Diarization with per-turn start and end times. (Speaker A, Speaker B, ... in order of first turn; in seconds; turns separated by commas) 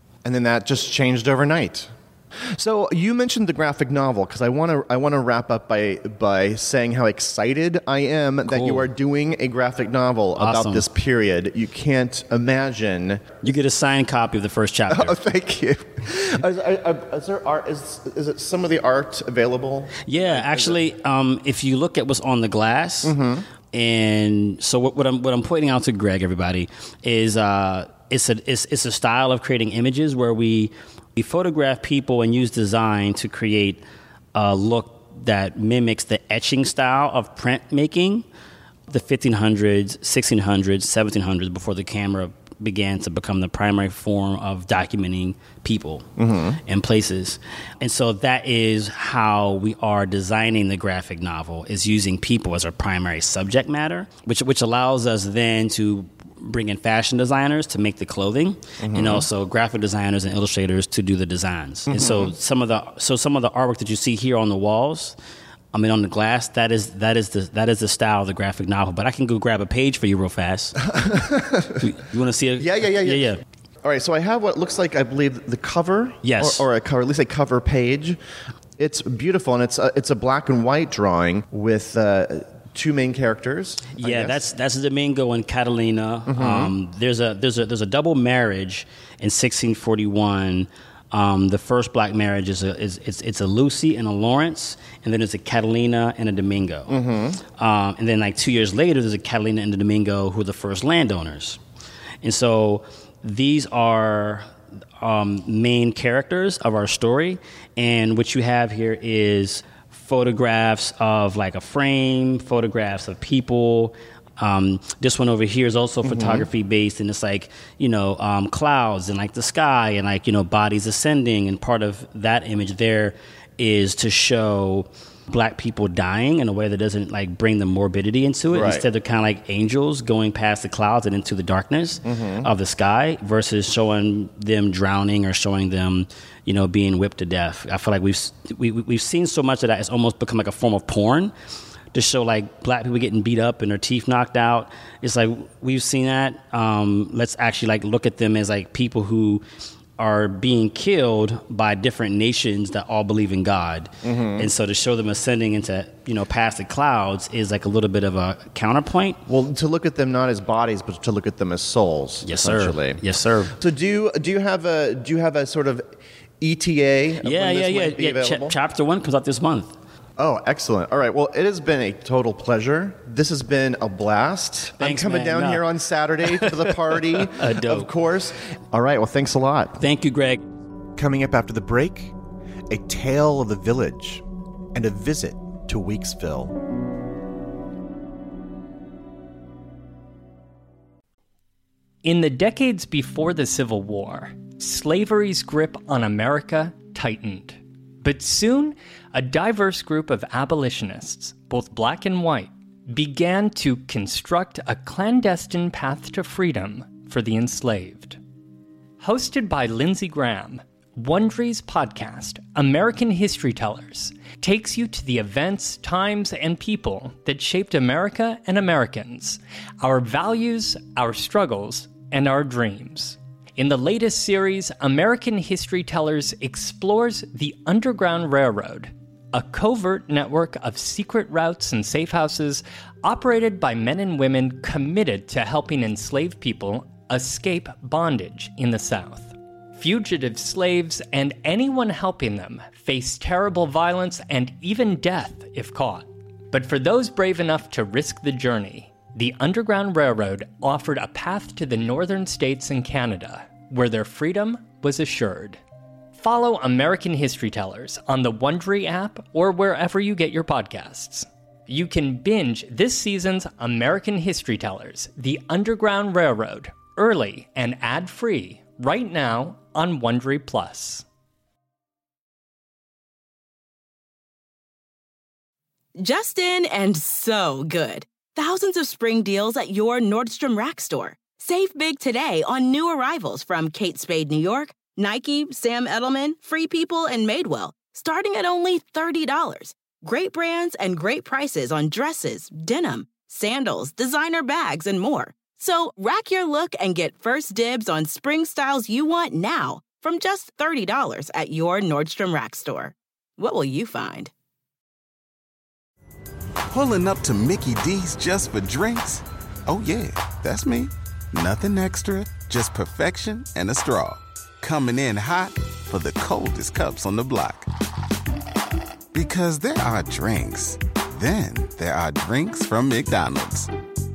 Speaker A: 0.2-1.9, Speaker A: 2.5-13.2, Speaker B: 8.5-8.9, Speaker B: 10.3-10.8, Speaker B: 13.4-15.2, Speaker A: 14.9-20.8, Speaker B: 20.0-23.1, Speaker A: 23.0-23.4, Speaker B: 23.7-33.8, Speaker B: 34.3-38.2, Speaker B: 38.9-46.1, Speaker A: 46.2-46.6, Speaker B: 46.6-65.1, Speaker A: 58.8-59.2, Speaker A: 61.9-62.3, Speaker B: 65.7-70.9, Speaker A: 70.9-71.9, Speaker B: 71.8-73.4, Speaker A: 72.6-78.2, Speaker B: 76.2-76.7, Speaker A: 78.8-84.5, Speaker B: 84.0-97.0, Speaker A: 86.3-86.7, Speaker A: 96.9-97.4, Speaker B: 97.6-101.6, Speaker B: 102.2-104.5, Speaker B: 105.0-141.3, Speaker A: 116.0-116.5, Speaker A: 128.5-128.8, Speaker A: 132.0-132.5, Speaker B: 141.9-149.4, Speaker B: 150.0-159.2, Speaker A: 154.0-154.5, Speaker A: 159.3-163.0, Speaker B: 162.2-163.5, Speaker A: 163.5-165.8, Speaker A: 166.4-168.6, Speaker B: 167.2-169.7, Speaker A: 170.2-179.8, Speaker B: 174.7-175.7, Speaker B: 176.2-177.9, Speaker B: 179.8-180.5, Speaker A: 180.9-182.1, Speaker A: 182.7-186.6, Speaker C: 192.0-208.2, Speaker C: 209.0-255.6, Speaker C: 256.1-271.0, Speaker D: 276.0-304.3, Speaker E: 306.7-317.7, Speaker E: 319.1-323.7